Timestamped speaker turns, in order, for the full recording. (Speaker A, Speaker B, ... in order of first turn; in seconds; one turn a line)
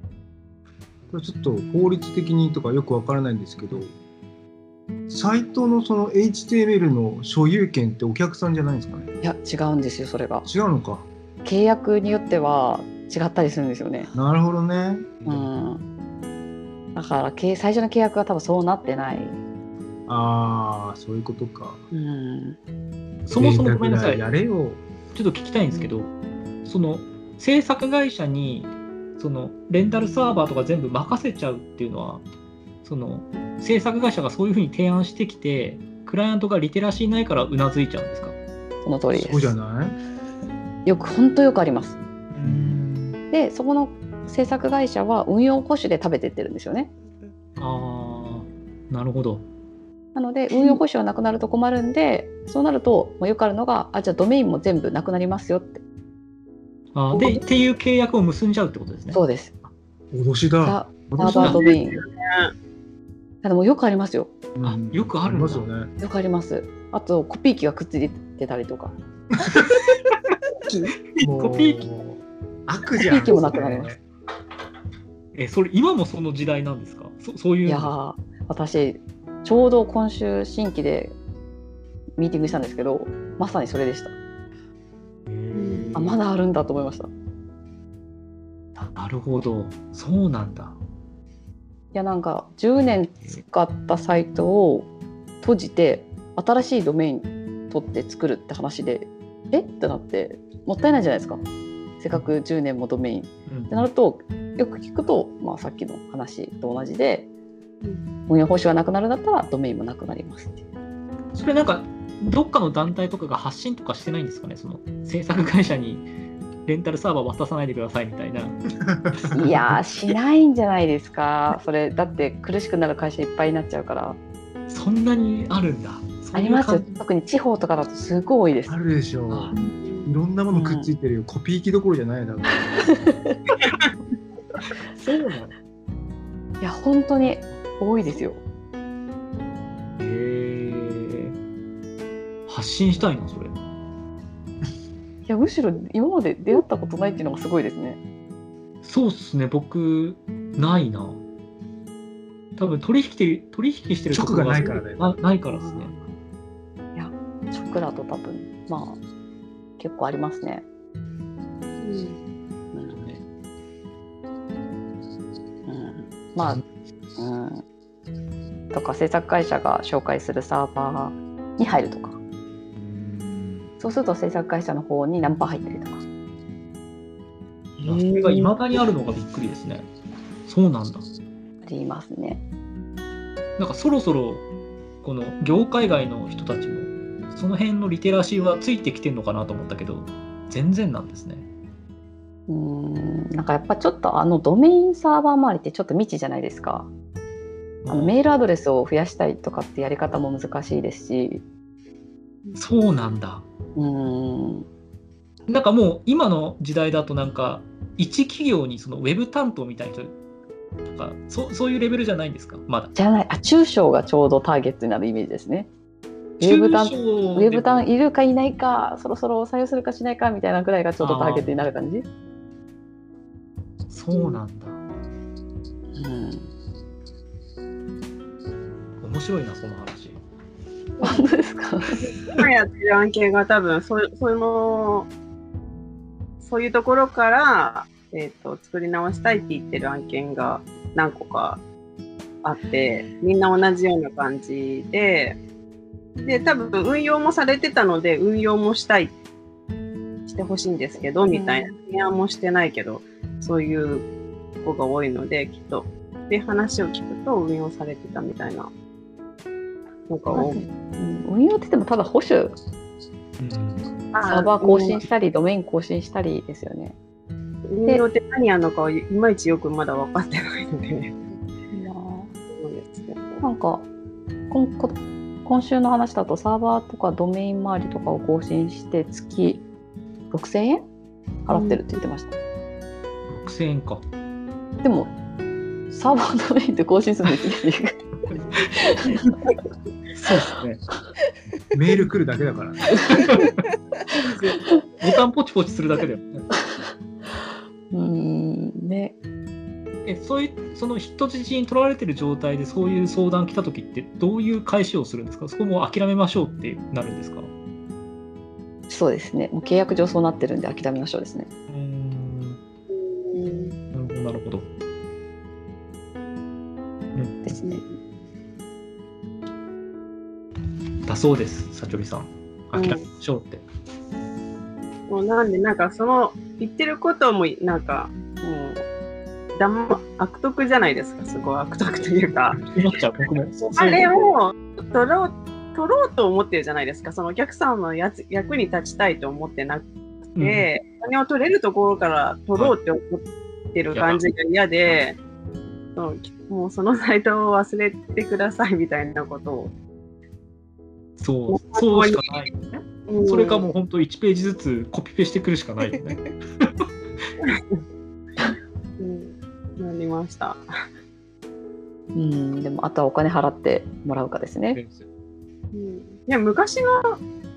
Speaker A: 1.1-3.9
Speaker A: 5.1-9.1
Speaker B: 9.2-10.5
Speaker A: 10.5-11.1
Speaker B: 11.4-14.1
Speaker A: 14.1-15.4
Speaker B: 15.3-15.8
Speaker B: 16.9-19.4
Speaker A: 20.1-21.8
Speaker B: 21.9-22.6
Speaker C: 23.3-24.2
Speaker A: 23.4-24.8
Speaker C: 25.1-26.1
Speaker C: 26.6-32.2
Speaker C: 32.8-38.4
Speaker B: 38.8-39.5
Speaker A: 39.1-40.0
Speaker B: 40.9-42.0
Speaker C: 42.3-43.2
Speaker A: 42.4-42.8
Speaker B: 43.3-46.9
Speaker C: 47.6-49.4
Speaker B: 50.1-55.8
Speaker C: 56.9-59.2
Speaker D: 57.1-57.4
Speaker B: 59.1-59.5
Speaker A: 60.1-61.6
Speaker B: 60.6-62.0
Speaker C: 61.3-61.6
Speaker D: 61.4-62.5
Speaker B: 63.4-64.3
Speaker A: 64.6-65.9
Speaker C: 64.6-65.7
Speaker B: 66.0-68.9
Speaker D: 70.7-70.9
Speaker C: 71.2-71.8
Speaker A: 71.2-74.0
Speaker B: 73.0-73.9
Speaker C: 75.3-77.9
Speaker B: 77.7-81.2
Speaker B: 82.2-84.2
Speaker C: 85.3-86.2
Speaker D: 85.5-85.9
Speaker B: 86.0-87.1
Speaker C: 89.0-90.8
Speaker B: 91.9-94.9
Speaker B: 95.4-101.4
Speaker B: 102.0-107.3
Speaker C: 103.5-103.9
Speaker B: 108.3-110.6
Speaker C: 111.3-116.1
Speaker C: 116.7-118.6
Speaker A: 118.8-119.8
Speaker B: 119.3-124.2
Speaker C: 124.7-127.0
Speaker B: 126.3-128.8
Speaker A: 128.7-129.5
Speaker D: 129.6-130.1
Speaker A: 130.1-133.1
Speaker B: 130.5-130.9
Speaker B: 132.9-133.3
Speaker C: 135.0-135.5
Speaker B: 136.6-138.4
Speaker C: 140.0-141.4
Speaker C: 142.5-143.6
Speaker B: 145.3-148.0
Speaker C: 148.8-151.2
Speaker C: 152.6-155.9
Speaker A: 154.1-155.2
Speaker B: 155.5-156.0
Speaker B: 156.9-159.0
Speaker B: 159.8-160.7
Speaker D: 161.8-162.2
Speaker B: 162.7-163.0
Speaker C: 162.9-163.2
Speaker B: 165.7-166.6
Speaker B: 167.2-167.6
Speaker B: 168.7-172.2
Speaker C: 172.8-173.7
Speaker B: 173.8-176.0
Speaker C: 177.8-179.9
Speaker D: 177.8-178.6
Speaker C: 180.5-181.1
Speaker B: 181.6-182.4
Speaker C: 183.6-184.5
Speaker C: 185.0-191.5
Speaker B: 192.5-196.9
Speaker C: 197.8-198.2
Speaker B: 197.9-201.4
Speaker C: 202.6-203.4
Speaker B: 203.8-204.7
Speaker C: 205.5-210.1
Speaker C: 210.8-212.9
Speaker B: 212.9-215.7
Speaker C: 216.4-217.9
Speaker B: 216.4-222.1
Speaker C: 221.0-221.7
Speaker C: 223.9-224.8
Speaker B: 225.9-226.5
Speaker C: 229.0-230.2
Speaker D: 231.0-231.2
Speaker B: 231.0-232.0
Speaker D: 232.0-235.1
Speaker D: 236.4-241.6
Speaker D: 242.4-245.4
Speaker D: 246.2-249.1
Speaker D: 250.3-254.1
Speaker B: 251.3-251.7
Speaker D: 254.6-258.7
Speaker D: 260.1-260.6
Speaker B: 260.3-262.6
Speaker C: 263.4-263.9
Speaker D: 264.1-265.0
Speaker B: 264.2-266.9
Speaker D: 267.7-271.1
Speaker B: 271.7-272.3
Speaker D: 272.5-273.4
Speaker B: 273.4-273.9
Speaker B: 274.5-279.6
Speaker B: 280.3-280.8
Speaker B: 281.5-282.4
Speaker D: 281.5-281.8
Speaker C: 283.3-284.0
Speaker B: 284.8-285.1
Speaker B: 285.9-288.0
Speaker B: 288.7-289.2
Speaker C: 290.2-290.8
Speaker A: 291.7-293.2
Speaker C: 293.1-293.5
Speaker D: 294.1-294.6
Speaker C: 295.0-296.5
Speaker B: 297.9-299.1
Speaker C: 300.1-307.5
Speaker B: 308.9-311.5
Speaker C: 311.7-312.6
Speaker D: 312.9-313.8
Speaker C: 313.9-314.7
Speaker C: 317.1-317.4
Speaker B: 317.4-317.8
Speaker D: 317.6-317.9
Speaker C: 321.1-323.6
Speaker D: 322.8-323.0
Speaker D: 325.1-328.8
Speaker D: 329.6-332.6
Speaker C: 332.6-334.1
Speaker D: 333.6-345.2
Speaker C: 340.4-340.7
Speaker C: 343.9-344.2
Speaker D: 345.9-349.7
Speaker C: 351.2-356.9
Speaker D: 351.5-352.4
Speaker D: 353.1-353.7
Speaker D: 357.4-357.8
Speaker D: 359.0-360.6
Speaker B: 362.1-364.8
Speaker C: 364.7-365.1
Speaker D: 365.7-367.2